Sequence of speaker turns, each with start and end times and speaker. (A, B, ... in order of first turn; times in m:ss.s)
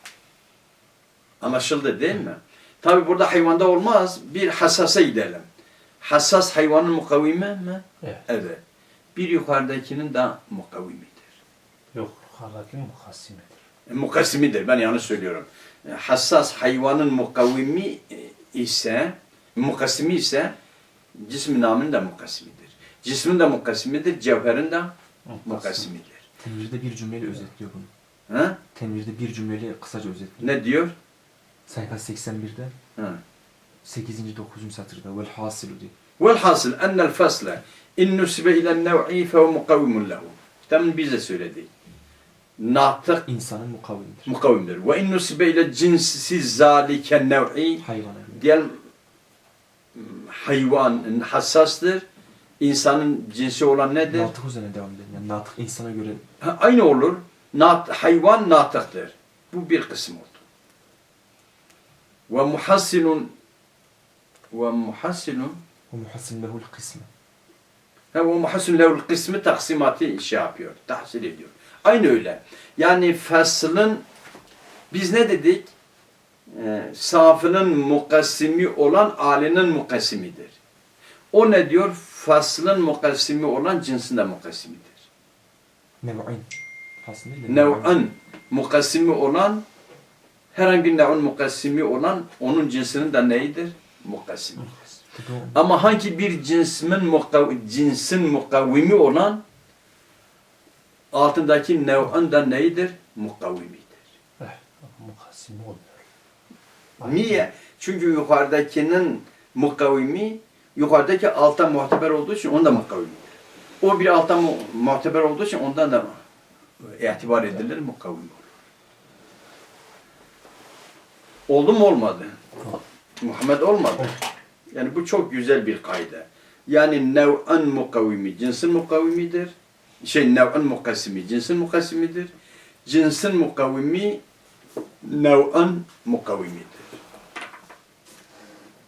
0:01.4-0:05.4 A
0:06.0-0:08.6 A
0:09.1-0:11.2 A
0:11.9-0:13.5 B
0:13.9-0:20.5 A
0:21.1-0:26.2 A
0:26.4-0:27.9 C
0:28.3-0:28.6 A
0:28.7-0:30.5 C
0:30.4-0:30.9 A
0:31.7-0:32.8 C
0:33.0-0:33.2 A
0:33.8-0:35.9 C
0:36.2-0:41.7 A
0:42.6-0:43.2 A
0:43.2-0:44.3 C
0:44.2-0:48.8 A
0:47.8-0:48.4 C
0:49.9-0:52.0 A
0:52.6-0:54.3 A
0:54.1-0:56.2 C
0:56.4-1:00.4 A
1:02.3-1:03.3 A
1:04.5-1:05.6 A
1:05.9-1:07.1 C
1:08.1-1:14.0 A
1:14.9-1:15.7 A
1:16.5-1:20.5 A
1:21.3-1:24.9 A
1:26.0-1:26.5 C
1:27.0-1:28.0 C
1:27.5-1:29.6 A
1:30.5-1:34.7 A
1:35.0-1:35.6 C
1:35.5-1:39.4 A
1:41.1-1:44.0 A
1:44.4-1:45.9 B
1:47.0-1:53.2 A
1:53.8-1:56.2 A
1:56.8-1:58.4 A
2:01.5-2:02.4 A
2:03.2-2:04.2 A
2:04.7-2:12.3 A
2:12.8-2:14.2 A
2:15.0-2:16.9 A